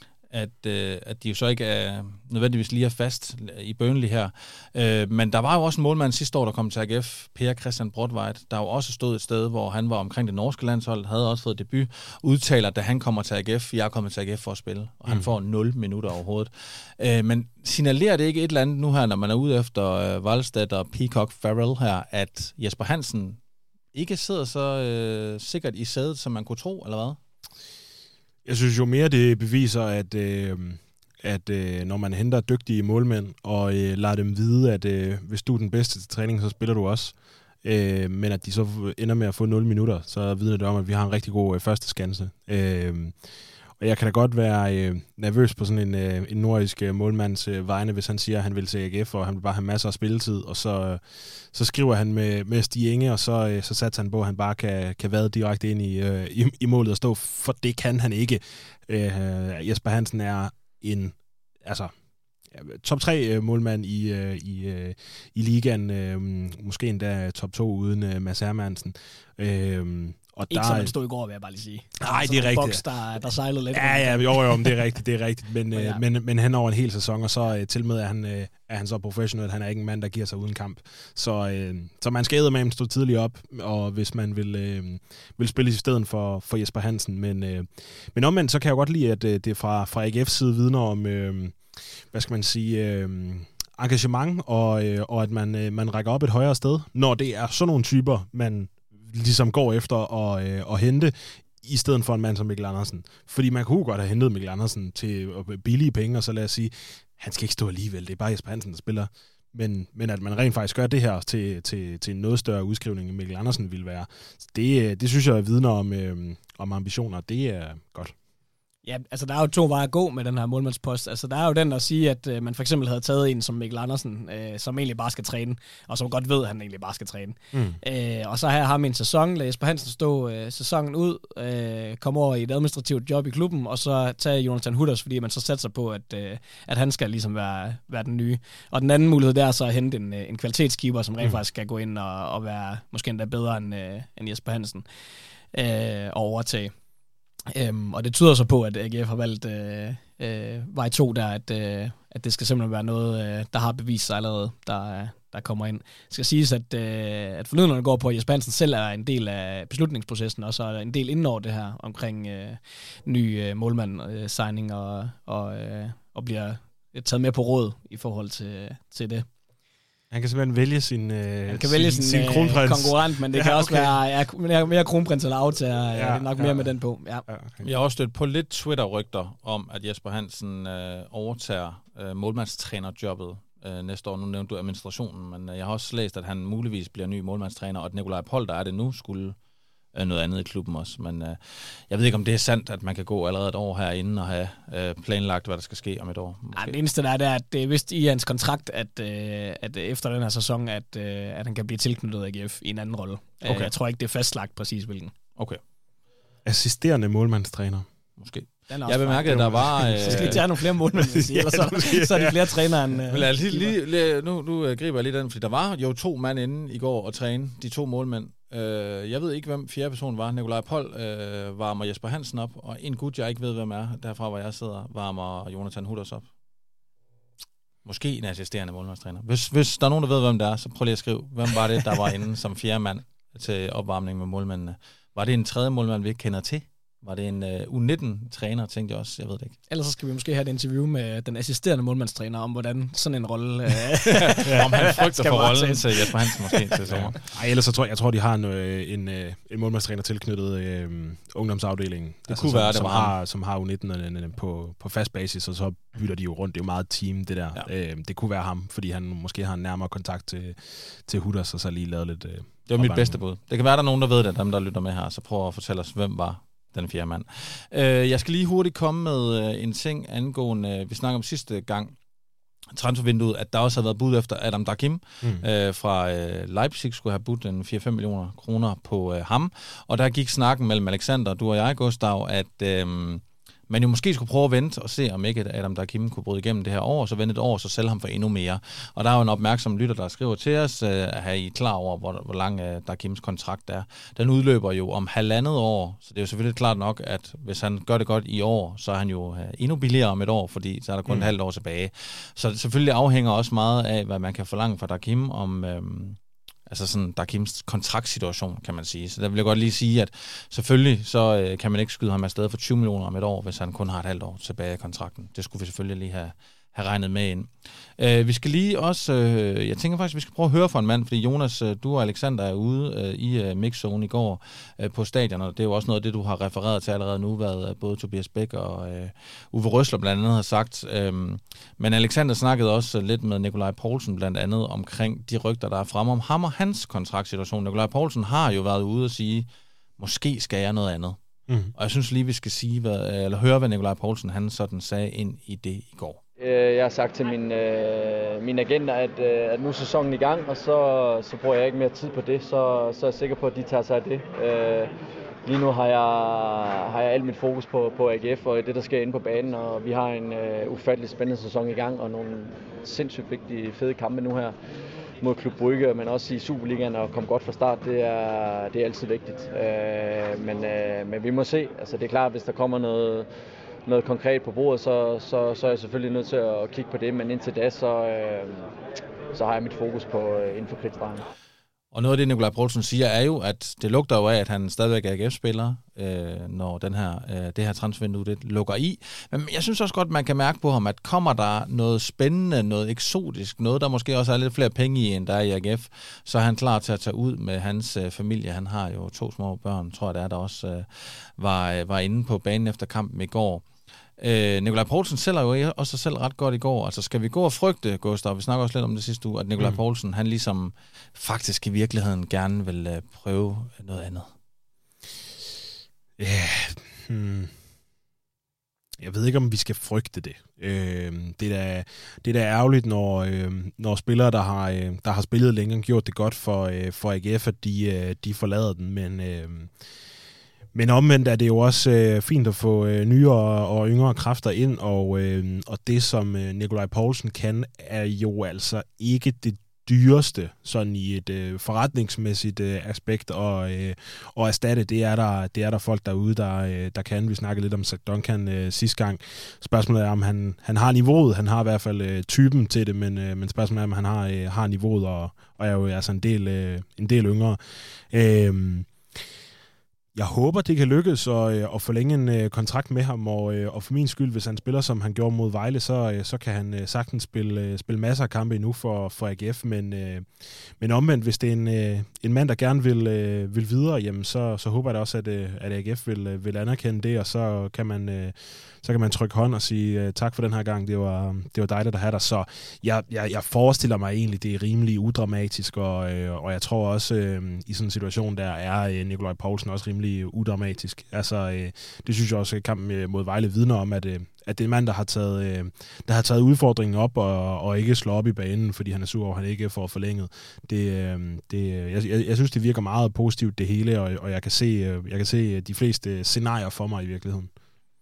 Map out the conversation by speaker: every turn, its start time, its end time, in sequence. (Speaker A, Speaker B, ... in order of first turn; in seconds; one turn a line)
Speaker A: 0.3-23.4
Speaker A: 23.9-27.2
Speaker B: 28.4-43.1
Speaker B: 43.8-61.9
Speaker B: 62.5-70.9
Speaker C: 70.5-74.8
Speaker B: 72.0-72.8
Speaker B: 73.7-91.6
Speaker C: 75.7-76.0
Speaker B: 92.1-118.2
Speaker C: 118.8-144.9
Speaker B: 127.5-127.8
Speaker C: 145.5-146.7
Speaker C: 147.5-169.3
Speaker B: 170.1-174.0
Speaker C: 171.5-177.2
Speaker B: 175.9-176.7
Speaker B: 177.3-177.6
Speaker A: 177.6-189.4
Speaker A: 189.9-196.8
Speaker C: 196.5-205.1
Speaker A: 203.4-203.7
Speaker B: 206.4-207.9
Speaker A: 208.2-210.4
Speaker C: 208.7-213.7
Speaker B: 209.3-212.5
Speaker A: 213.1-226.3
Speaker A: 227.8-239.6
Speaker C: 239.7-246.8
Speaker A: 244.2-247.2
Speaker B: 244.5-244.8
Speaker B: 246.9-263.2
Speaker A: 252.3-253.2
Speaker A: 262.7-271.9
Speaker A: 272.7-339.5
Speaker A: 340.0-341.2
Speaker A: 341.8-346.2
Speaker D: 346.4-354.9
Speaker D: 355.4-364.6
Speaker D: 365.2-373.3
Speaker D: 373.9-378.7
Speaker D: 379.3-381.3
Speaker A: 381.9-403.6
Speaker A: 404.2-414.3
Speaker B: 416.2-417.5
Speaker B: 419.0-429.7
Speaker B: 430.7-458.9
Speaker B: 460.1-507.5